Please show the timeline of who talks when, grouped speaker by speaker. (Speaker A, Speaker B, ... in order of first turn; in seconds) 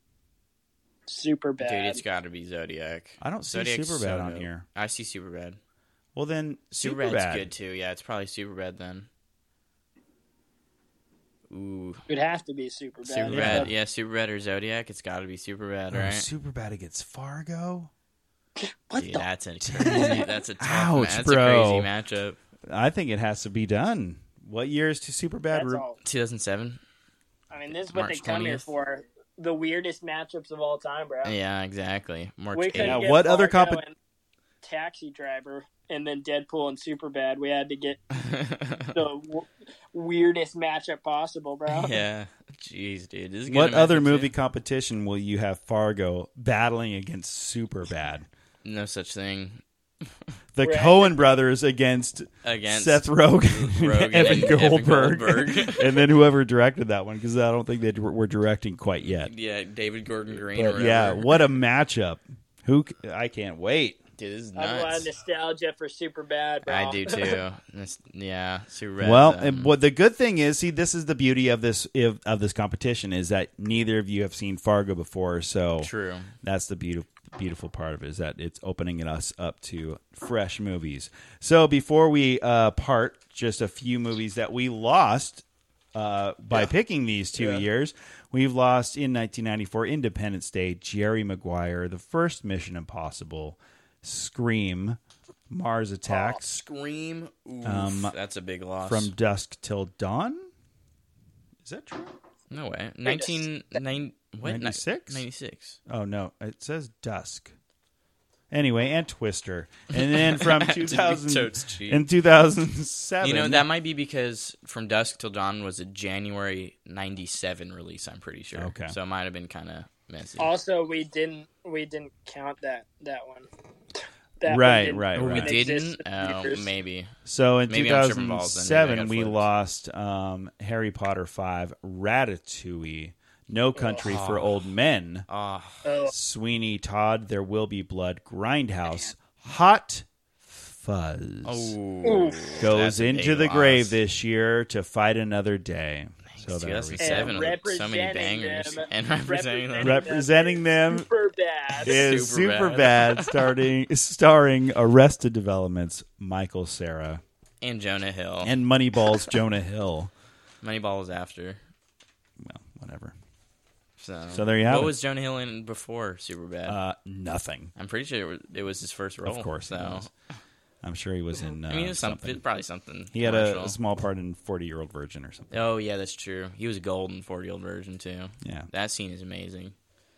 Speaker A: 1.1-2.0, 12.1-13.7, 18.6-19.2, 19.8-20.3, 25.5-26.0, 27.5-31.3, 32.5-33.9, 34.6-38.1, 38.9-42.0, 50.6-51.3, 64.5-67.4, 96.1-96.4, 103.1-103.4, 120.4-123.5, 124.4-126.7, 133.7-134.1, 135.8-136.1, 142.0-142.6, 147.0-152.1
Speaker B: 1.6-5.6, 6.8-9.1, 11.5-12.0, 13.0-16.3, 19.0-22.4, 26.0-26.8, 27.9-28.7, 31.2-33.1, 38.1-38.9, 41.7-44.3, 48.6-49.6, 52.4-56.1, 59.0-61.4, 64.2-65.1, 66.7-69.7, 75.8-76.3, 87.3-87.6, 96.3-99.1, 102.5-105.8, 109.9-112.0, 113.2-120.5, 125.1-127.1, 127.7-129.4, 134.0-134.5, 135.3-135.9, 141.4-144.0, 146.3-150.1, 151.8-153.4, 157.6-158.5, 160.6-161.6, 164.0-166.8, 167.8-170.1, 171.7-173.8, 175.5-179.7
Speaker C: 3.2-4.6, 6.1-7.5, 13.2-13.7, 15.9-17.9, 19.7-21.9, 22.7-25.8, 32.8-33.8, 43.5-48.3, 50.5-59.3, 60.5-64.0, 69.0-75.9, 76.4-96.6, 97.6-98.1, 98.8-100.5, 101.6-102.1, 104.4-105.2, 105.9-107.5, 108.5-113.6, 118.5-119.0, 124.4-125.5, 127.2-135.3, 136.0-141.8, 142.6-147.4, 149.8-151.1, 151.8-157.2, 158.4-160.1, 162.4-163.1, 164.3-164.9, 166.7-167.7, 169.2-170.1, 170.8-172.4, 173.1-175.5, 178.4-178.7